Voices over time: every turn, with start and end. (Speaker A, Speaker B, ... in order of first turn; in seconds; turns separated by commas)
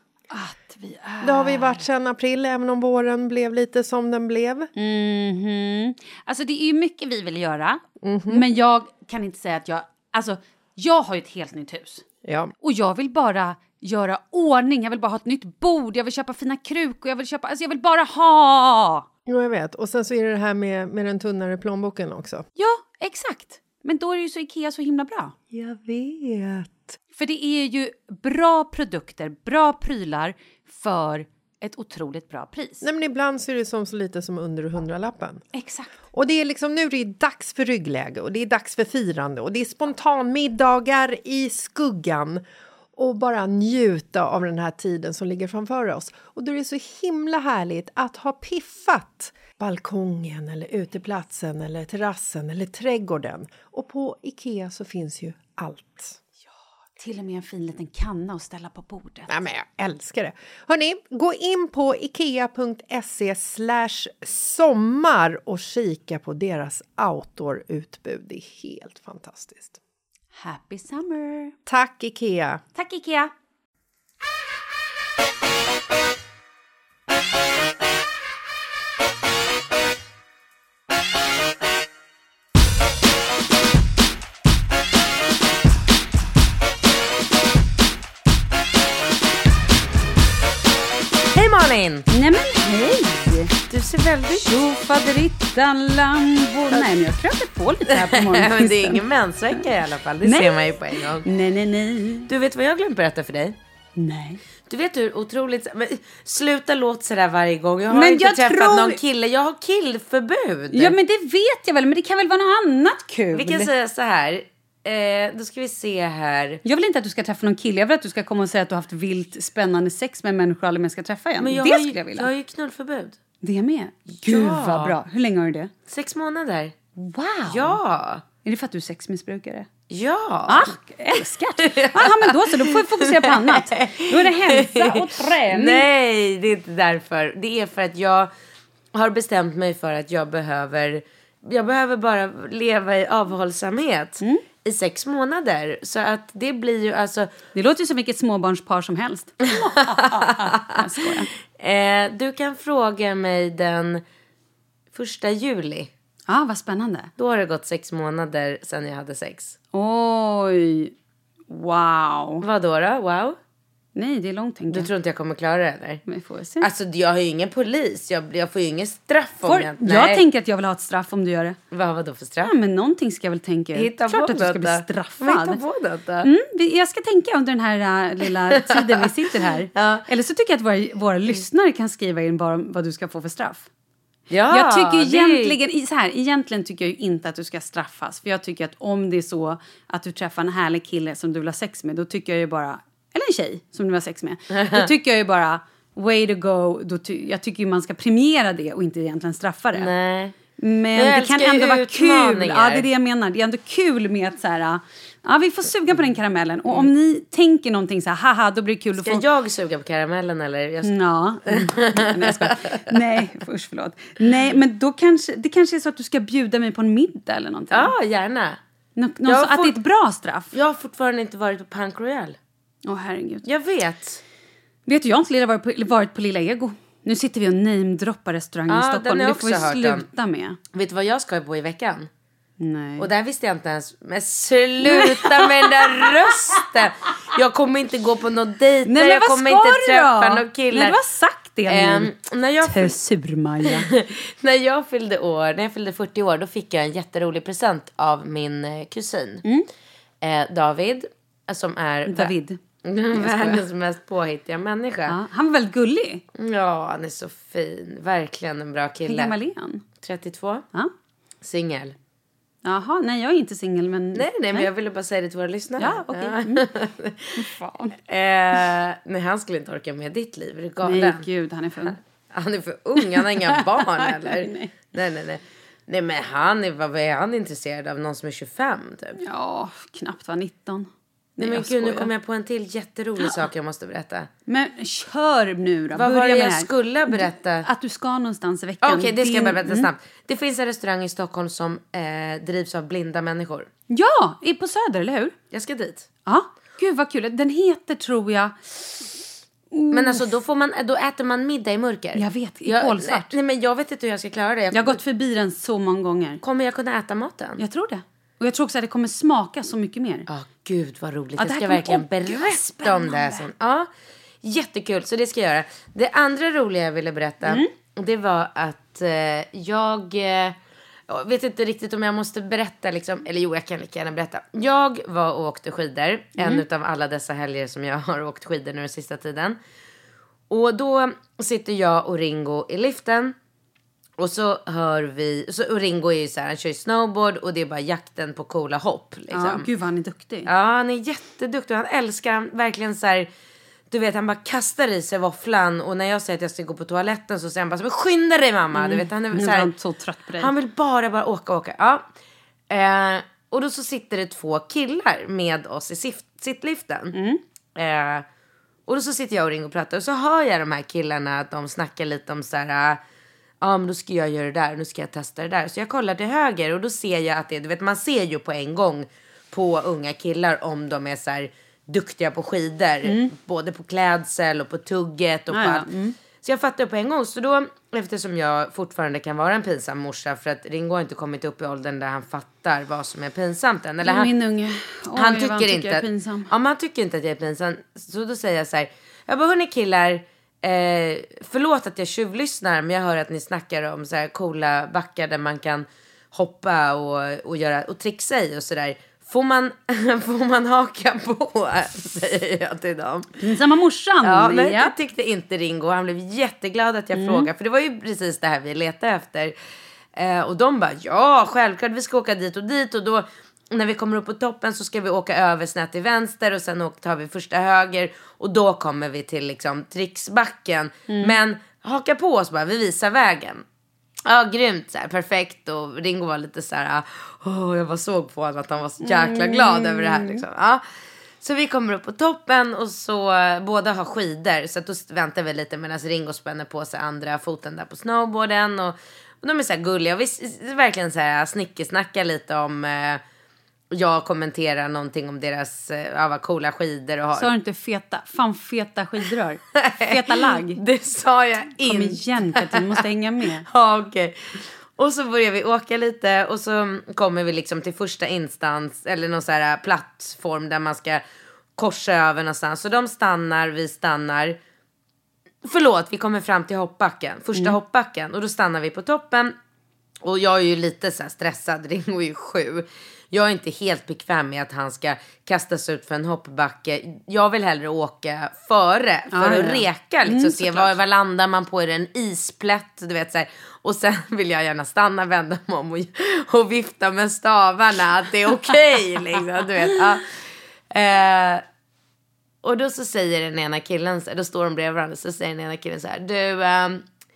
Speaker A: 0.3-1.8, Speaker B: 1.2-4.7, Speaker A: 4.8-12.1, Speaker B: 8.0-8.4, Speaker B: 12.2-12.5, Speaker A: 12.6-19.1, Speaker B: 19.3-22.5, Speaker A: 22.6-25.4, Speaker B: 25.5-27.0, Speaker A: 27.1-32.8, Speaker B: 32.8-35.5, Speaker A: 35.5-35.9, Speaker B: 36.1-42.4, Speaker B: 43.0-56.2, Speaker A: 57.0-59.3, Speaker B: 59.3-69.8, Speaker A: 70.3-71.5, Speaker B: 71.7-72.6, Speaker A: 72.8-73.3, Speaker C: 91.3-92.1, Speaker A: 92.1-93.5, Speaker C: 93.7-94.5, Speaker A: 94.3-99.0, Speaker C: 97.9-101.2, Speaker A: 100.2-102.3, Speaker C: 102.3-103.6, Speaker A: 104.0-104.4, Speaker C: 104.7-111.0, Speaker A: 107.9-109.0, Speaker A: 110.7-113.7, Speaker C: 113.3-116.6, Speaker A: 116.6-122.3, Speaker C: 121.4-123.2, Speaker A: 123.4-125.7, Speaker C: 124.1-125.0, Speaker C: 125.9-126.8, Speaker A: 127.0-127.8, Speaker C: 127.5-128.2, Speaker A: 128.4-129.7, Speaker C: 129.9-130.8, Speaker A: 130.5-135.9, Speaker C: 131.6-138.3, Speaker C: 138.9-147.3, Speaker A: 147.6-151.3, Speaker C: 149.5-150.8, Speaker C: 151.6-154.0, Speaker C: 154.9-155.9, Speaker A: 156.3-157.1, Speaker C: 157.2-159.6, Speaker A: 159.7-160.9, Speaker A: 161.5-162.5, Speaker C: 162.4-163.4, Speaker A: 163.9-164.9, Speaker C: 164.7-166.0, Speaker A: 166.1-166.7, Speaker C: 166.6-170.2, Speaker A: 169.4-171.6, Speaker C: 171.7-172.5, Speaker A: 172.4-175.6, Speaker C: 173.8-176.3, Speaker A: 176.2-183.7, Speaker C: 178.6-179.1, Speaker C: 179.7-180.1, Speaker C: 184.3-185.6, Speaker A: 184.5-199.9, Speaker C: 194.6-194.9, Speaker C: 199.8-200.4, Speaker A: 200.6-209.2, Speaker C: 200.9-202.9, Speaker C: 209.0-210.9, Speaker A: 210.8-217.9, Speaker C: 211.5-212.9, Speaker C: 217.7-218.6, Speaker A: 219.0-220.5, Speaker C: 219.2-219.8, Speaker C: 220.5-222.4, Speaker A: 222.8-223.5, Speaker C: 223.5-224.2, Speaker A: 224.9-230.6, Speaker C: 228.7-230.1, Speaker C: 230.7-232.1, Speaker A: 232.6-233.1, Speaker C: 233.0-241.0, Speaker A: 234.8-236.7, Speaker A: 238.9-242.1, Speaker C: 241.7-243.0, Speaker A: 242.6-243.9, Speaker C: 243.7-249.4, Speaker A: 249.4-249.7, Speaker C: 250.2-252.3, Speaker A: 252.1-252.6, Speaker C: 252.8-255.2, Speaker A: 253.1-253.6, Speaker A: 255.1-256.2, Speaker C: 256.4-259.3, Speaker A: 259.1-259.8, Speaker C: 260.0-260.7, Speaker C: 261.4-261.9, Speaker A: 262.6-264.7, Speaker C: 264.1-267.5, Speaker A: 265.8-266.7, Speaker A: 267.4-268.0, Speaker C: 268.1-271.2, Speaker A: 270.8-272.0, Speaker C: 272.3-279.2, Speaker A: 273.0-274.7, Speaker A: 279.2-282.1, Speaker C: 281.4-284.3, Speaker A: 284.5-289.9, Speaker C: 285.9-287.7, Speaker C: 288.8-293.7, Speaker A: 293.9-295.3, Speaker C: 295.5-296.1, Speaker A: 296.3-299.1, Speaker A: 299.7-300.2, Speaker C: 299.9-305.0, Speaker A: 302.1-303.3, Speaker A: 304.7-306.4, Speaker C: 306.4-307.6, Speaker A: 307.6-310.3, Speaker C: 310.3-313.9, Speaker A: 311.4-313.5, Speaker C: 314.4-320.6, Speaker A: 317.4-317.7, Speaker C: 321.1-329.6, Speaker A: 326.4-326.6, Speaker C: 330.5-333.4, Speaker C: 334.2-339.7, Speaker A: 339.3-340.5, Speaker C: 340.5-343.3, Speaker C: 343.9-349.7, Speaker A: 348.7-350.5, Speaker C: 350.4-352.0, Speaker C: 352.7-357.2, Speaker A: 357.1-357.4, Speaker C: 357.8-358.3, Speaker C: 358.9-363.0, Speaker C: 363.6-375.9, Speaker A: 373.1-373.3, Speaker A: 375.5-376.2, Speaker C: 376.4-384.3, Speaker A: 384.0-386.5, Speaker C: 385.1-403.3, Speaker A: 403.4-404.9, Speaker C: 404.2-409.6, Speaker A: 407.1-407.5, Speaker C: 410.2-423.6, Speaker A: 421.1-421.4, Speaker C: 424.2-430.8, Speaker A: 429.0-430.4, Speaker C: 431.4-443.2, Speaker C: 443.9-447.5, Speaker A: 447.4-450.8, Speaker C: 449.8-453.0, Speaker A: 451.8-453.6, Speaker C: 453.7-461.2, Speaker C: 461.8-464.6, Speaker C: 465.6-469.6, Speaker C: 470.2-490.4, Speaker A: 479.3-480.9, Speaker C: 490.9-491.6, Speaker C: 492.6-497.0